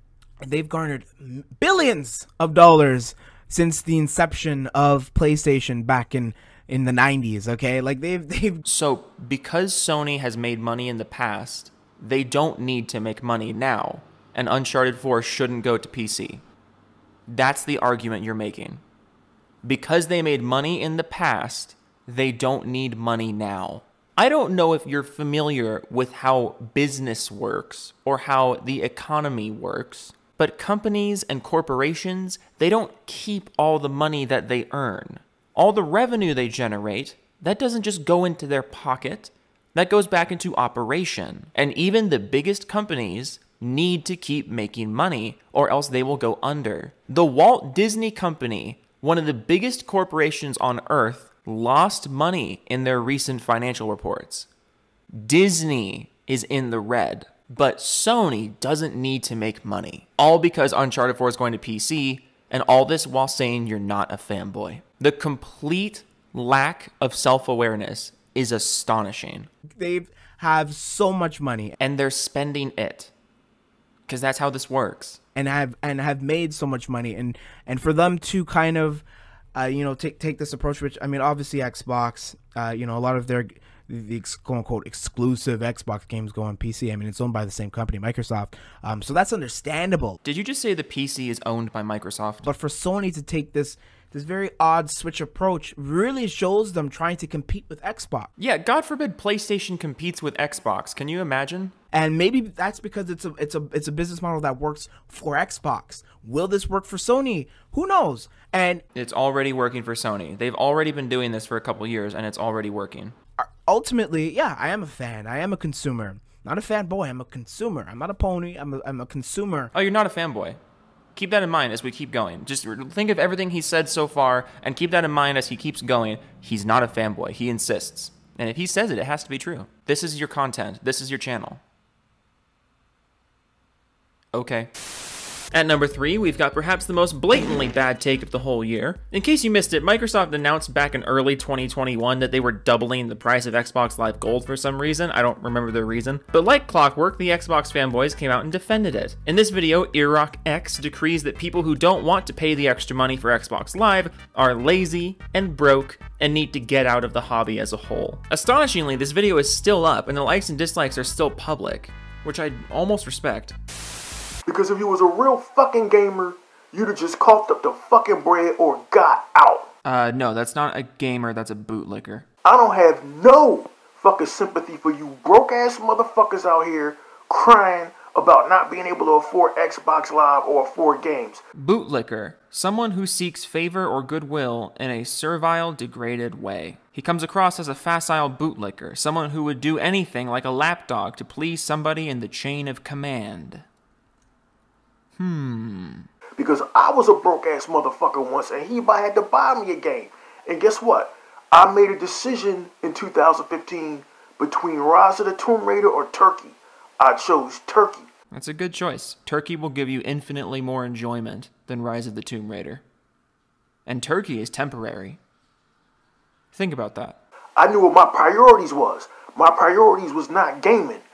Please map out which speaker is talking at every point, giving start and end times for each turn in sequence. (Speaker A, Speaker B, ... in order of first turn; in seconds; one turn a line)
Speaker A: 0.4-8.6
Speaker B: 8.7-16.4
Speaker B: 17.3-18.8
Speaker B: 19.6-54.5
Speaker B: 55.1-69.5
Speaker A: 69.8-71.8
Speaker B: 71.8-73.1
Speaker B: 74.1-75.2
Speaker A: 75.3-90.2
Speaker B: 90.2-92.5
Speaker A: 92.4-98.3
Speaker B: 98.4-101.7
Speaker A: 101.9-108.8
Speaker B: 109.0-113.1
Speaker A: 113.4-119.7
Speaker B: 119.7-120.6
Speaker B: 121.2-131.6
Speaker B: 134.3-134.7
Speaker B: 135.5-163.6
Speaker C: 164.5-169.7
Speaker B: 169.8-172.2
Speaker C: 172.4-181.4
Speaker B: 181.6-193.7
Speaker B: 195.2-196.1
Speaker C: 196.4-208.1
Speaker B: 208.3-212.8
Speaker B: 213.9-215.2
Speaker B: 216.5-217.2
Speaker C: 217.6-221.0